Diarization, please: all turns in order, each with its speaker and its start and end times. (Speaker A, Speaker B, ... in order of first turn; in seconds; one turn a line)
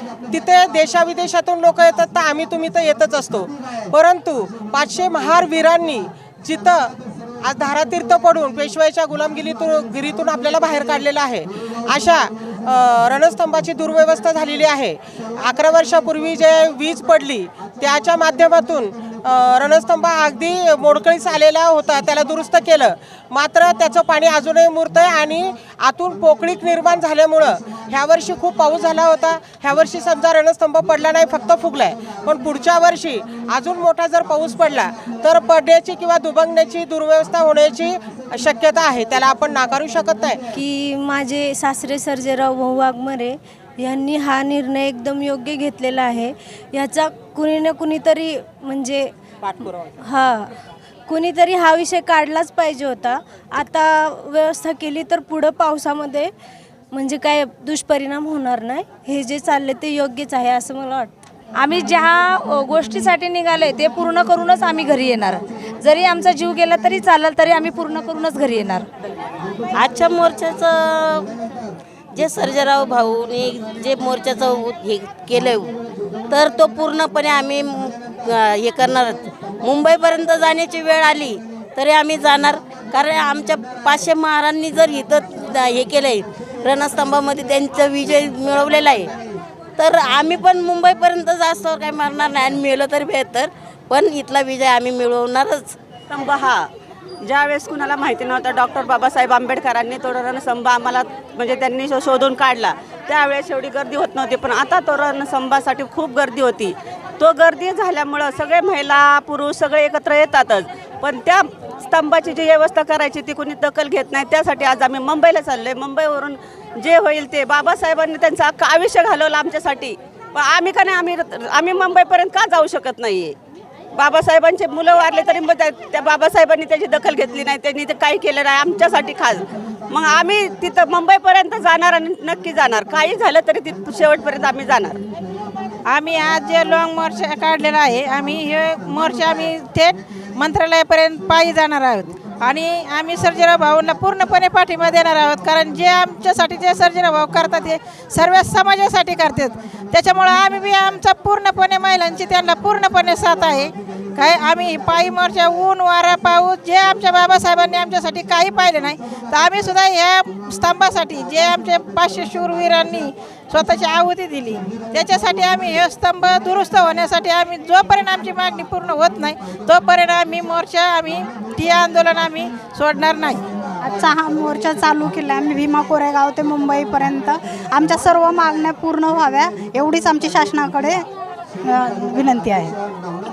Speaker A: 0.3-40.4
Speaker B: 40.5-49.1
Speaker A: 49.4-49.7
Speaker B: 50.0-56.3
Speaker B: 56.9-61.1
Speaker C: 61.5-68.9
Speaker D: 69.7-71.3
Speaker D: 72.1-75.7
Speaker D: 76.3-89.1
Speaker D: 89.8-95.7
Speaker E: 96.1-96.6
Speaker E: 97.3-123.3
Speaker E: 124.0-129.4
Speaker E: 129.9-135.0
Speaker F: 135.9-173.4
Speaker G: 173.8-181.0
Speaker G: 181.6-182.7